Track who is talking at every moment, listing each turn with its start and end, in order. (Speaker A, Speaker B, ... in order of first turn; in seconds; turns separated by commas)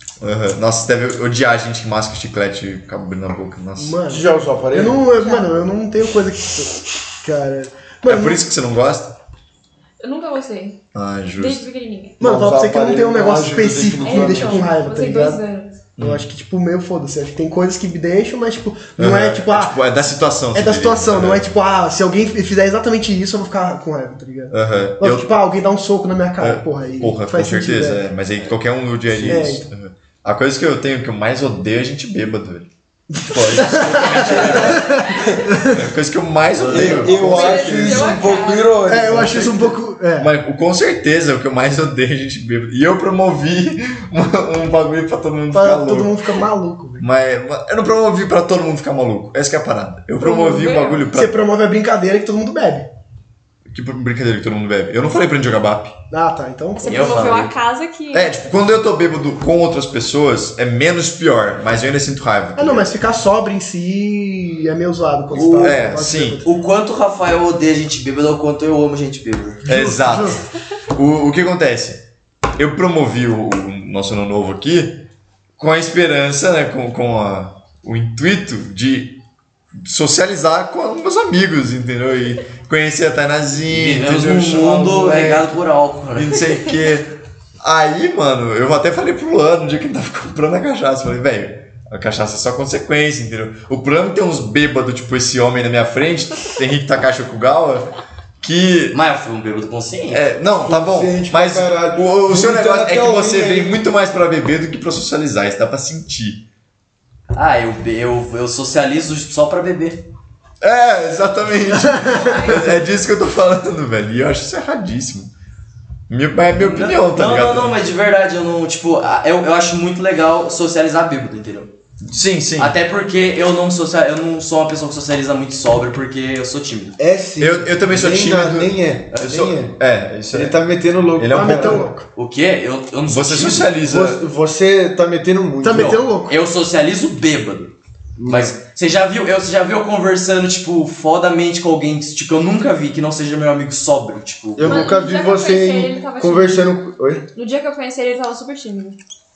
Speaker A: 0.2-4.0, Speaker B: 3.8-8.4, Speaker C: 4.0-5.1, Speaker A: 8.0-9.2, Speaker D: 10.0-10.8, Speaker A: 10.9-11.7, Speaker D: 11.4-12.2, Speaker C: 12.2-14.7, Speaker B: 12.2-15.4, Speaker D: 14.0-15.8, Speaker A: 16.0-16.2, Speaker B: 16.0-19.8, Speaker A: 19.0-21.5, Speaker B: 20.5-28.0, Speaker A: 24.5-25.3, Speaker A: 26.4-32.7, Speaker B: 29.1-29.7, Speaker A: 33.2-34.9, Speaker B: 33.2-35.8, Speaker E: 33.9-34.8, Speaker A: 35.6-38.2, Speaker C: 36.6-39.8, Speaker D: 37.1-38.7, Speaker B: 38.9-40.3, Speaker A: 40.2-46.2, Speaker B: 45.5-47.1, Speaker A: 47.0-51.4, Speaker D: 50.2-51.1, Speaker B: 51.1-52.9, Speaker A: 53.7-56.0, Speaker B: 56.1-57.4, Speaker D: 56.8-58.3, Speaker E: 56.8-57.5, Speaker A: 58.1-62.9, Speaker B: 62.5-66.5, Speaker E: 65.3-65.7, Speaker A: 65.3-66.4, Speaker E: 66.4-69.7, Speaker A: 69.7-70.4, Speaker B: 69.7-70.4, Speaker A: 70.9-72.0, Speaker A: 72.6-75.1, Speaker A: 75.6-79.2, Speaker A: 79.8-85.5, Speaker E: 83.7-86.4, Speaker A: 86.1-99.0, Speaker E: 98.9-100.2, Speaker A: 100.1-106.4, Speaker C: 100.6-103.8, Speaker E: 107.3-110.0, Speaker A: 110.6-115.3, Speaker B: 111.9-112.7, Speaker A: 116.1-117.8, Speaker E: 116.5-121.7, Speaker A: 122.0-122.8, Speaker E: 122.6-127.0, Speaker C: 127.0-129.8, Speaker A: 127.4-130.6, Speaker E: 129.1-129.5, Speaker C: 130.3-131.9, Speaker A: 131.2-131.9, Speaker B: 131.3-132.1, Speaker E: 132.1-133.7, Speaker A: 133.1-134.2, Speaker C: 133.8-136.0, Speaker B: 135.6-136.3, Speaker E: 135.7-137.7, Speaker C: 138.2-138.5, Speaker E: 138.2-144.9, Speaker C: 144.6-147.2, Speaker D: 144.6-146.7, Speaker D: 147.3-149.0